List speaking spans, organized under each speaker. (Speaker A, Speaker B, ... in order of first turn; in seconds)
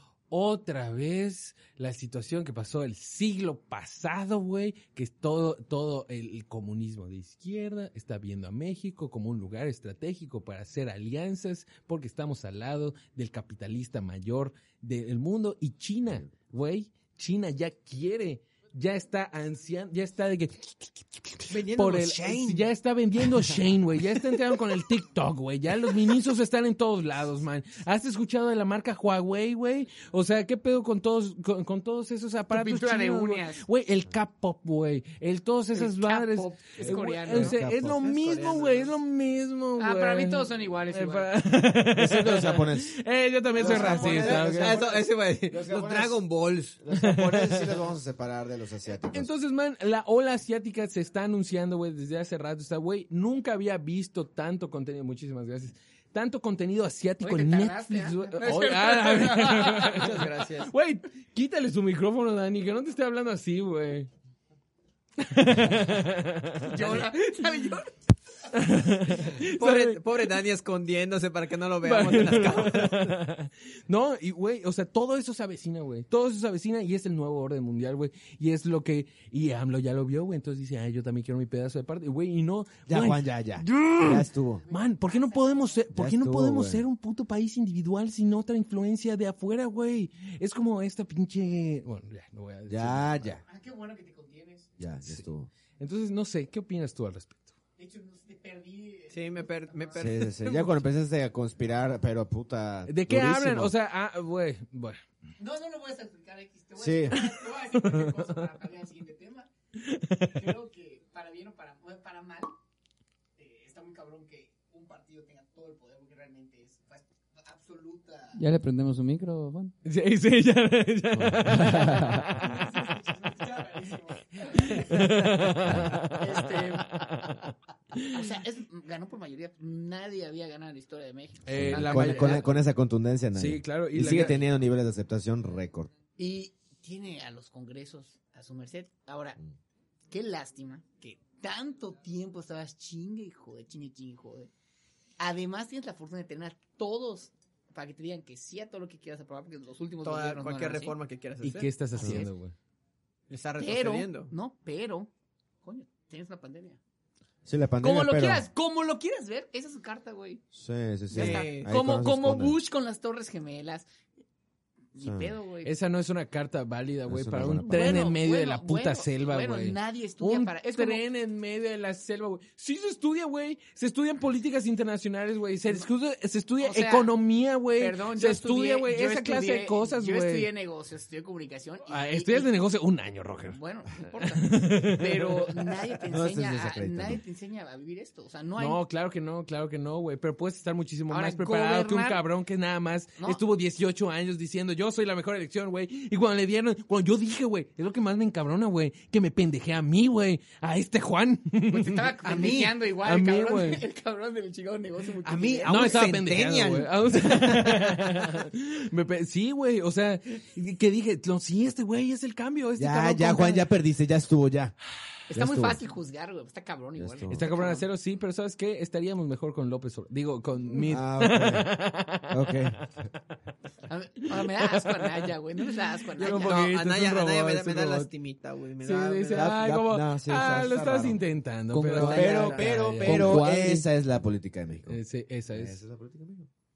Speaker A: 0.3-44.8, 46.9-47.8, 49.1-64.1, 65.2-67.1, 68.5-70.4, 71.8-93.3, 95.8-97.5, 102.9-105.0, 107.2-108.3, 109.9-110.5, 119.8-122.6, 124.7-128.1, 131.5-132.6, 133.3-134.4, 151.4-152.5, 165.6-180.5, 181.9-185.5, 188.6-202.2, 203.0-203.8, 205.7-213.7, 217.3-222.5, 224.3-225.6, 226.2-228.1, 228.8-233.5, 234.8-235.8
Speaker B: 16.1-16.3, 37.3-38.0, 42.0-43.0, 43.6-49.3, 82.9-84.7, 85.9-86.8, 92.7-93.4, 94.8-95.5, 100.0-103.7, 106.8-107.2, 121.1-122.3, 125.7-126.0, 131.5-135.9, 152.0-152.3, 157.5-158.5, 160.5-162.6, 165.0-165.3, 167.1-168.1, 186.1-187.2, 212.8-214.8, 215.3-215.8, 217.0-217.5, 220.7-221.7, 222.3-223.1, 229.3-231.2, 231.9-236.5
Speaker C: 21.5-22.7, 37.9-39.0, 43.6-46.8, 59.9-60.7, 69.5-73.2, 99.1-100.8, 150.0-151.7, 153.3-154.3, 161.1-161.7, 202.2-202.8, 205.2-208.3, 226.2-229.7, 232.0-232.7
Speaker D: 32.5-33.6, 35.7-37.5, 39.8-41.3, 43.6-44.2, 57.2-60.1, 66.6-67.9, 84.6-85.8, 93.5-94.7, 97.8-100.0, 105.4-109.5, 110.3-112.5, 113.4-118.4, 122.4-125.4, 126.2-127.4, 128.1-132.4, 136.2-139.4, 140.1-144.5, 145.2-151.0, 151.9-152.3, 153.6-155.1, 155.6-156.8, 157.8-160.4, 161.1-163.9, 164.9-165.7, 167.7-171.0, 176.6-177.1, 177.8-182.5, 183.5-188.8, 191.1-192.2, 201.7-206.0, 215.3-217.8, 223.9-226.6
Speaker E: 118.3-119.8, 231.7-233.9